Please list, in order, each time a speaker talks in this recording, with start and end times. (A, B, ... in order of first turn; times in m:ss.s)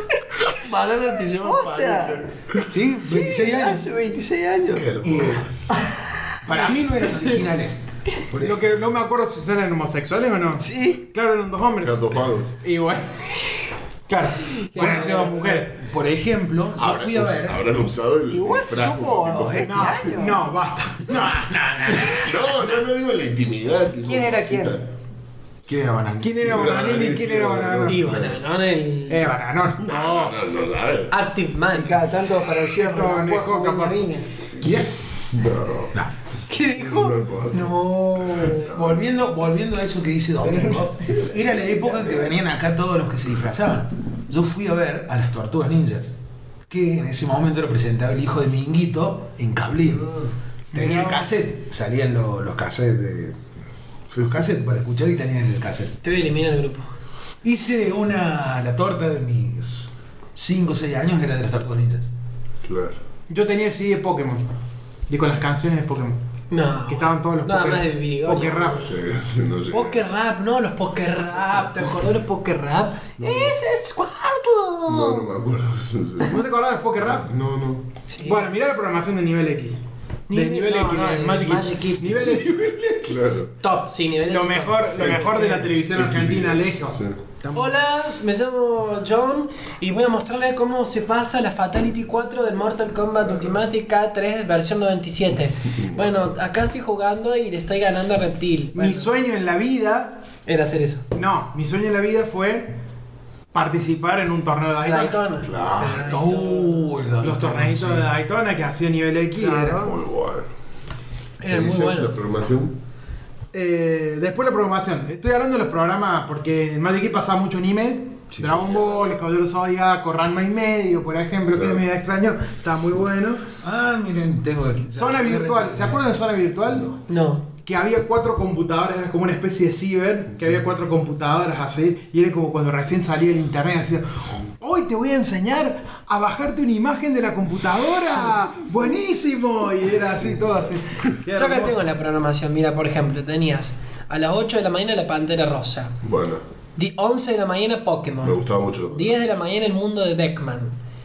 0:00.5-0:02.7 A
0:01.4-0:02.3 B
0:02.7-0:03.8 C
0:03.0-0:04.9 B
0:04.7-0:05.8 A
0:05.0-0:05.5 C
0:06.4-0:08.7 C
0:08.4-0:12.0 D
0:10.6-0:11.0 B
0:11.8-0:12.6 A
0:12.6-0:13.2 D
0:14.1-0:15.8 D
0:14.6-0:15.3 E
0:15.7-0:17.7 C
0:16.8-0:20.2 A
0:18.3-0:20.5 B
0:19.6-0:21.3 D
0:21.1-0:22.6 C
0:22.1-0:24.9 A
0:24.0-0:24.8 B
0:25.7-0:26.8 C
0:26.2-0:28.1 D
0:26.4-0:28.4 A
0:27.8-0:29.3 E
0:29.1-0:30.4 D
0:29.8-0:31.2 A
0:31.1-0:32.0 E
0:31.7-0:34.4 B
0:32.7-0:34.1 D
0:34.6-0:34.9 C
0:35.3-0:36.0 A
0:36.5-0:38.7 E
0:36.8-0:39.0 A
0:38.7-0:46.1 C
0:40.4-0:42.1 B
0:46.7-0:50.2 C
0:50.7-0:51.3 D
0:50.7-0:53.4 C
0:54.1-0:54.4 A
0:54.1-0:56.0 C
0:56.0-0:56.9 E
0:57.4-1:02.1 C
1:02.6-1:03.0 A
1:03.3-1:04.5 D
1:05.1-1:06.2 D
1:06.5-1:08.8 E
1:06.9-1:08.9 D
1:08.7-1:10.2 A
1:09.7-1:15.3 E
1:13.2-1:13.6 A
1:14.9-1:16.4 A
1:16.2-1:17.3 D
1:17.0-1:17.8 A
1:18.1-1:18.4 E
1:18.2-1:23.0 D
1:20.3-1:22.1 E
1:22.3-1:23.2 C
1:23.0-1:23.5 A
1:23.6-1:25.7 E
1:24.2-1:27.6 D
1:25.0-1:27.2 A
1:27.5-1:39.1 E
1:35.8-1:36.0 A
1:38.7-1:40.2 D
1:40.5-1:41.0 E
1:41.1-1:42.7 D
1:43.5-1:45.3 D
1:44.8-1:46.9 E
1:45.4-1:46.3 A
1:46.0-1:48.1 C
1:47.2-1:49.9 D
1:49.4-1:50.0 B
1:49.8-1:50.5 A
1:51.4-1:52.2 E
1:51.5-1:52.8 A
1:53.5-2:03.4 D
1:58.3-1:58.7 C
1:58.6-1:59.1 A
2:01.5-2:01.8 A
2:03.6-2:06.1 C
2:04.9-2:07.0 D
2:06.7-2:07.0 A
2:07.1-2:07.5 E
2:07.6-2:21.8 D
2:21.3-2:26.0 E
2:26.0-2:26.4 A
2:26.8-2:30.8 E
2:28.2-2:29.2 A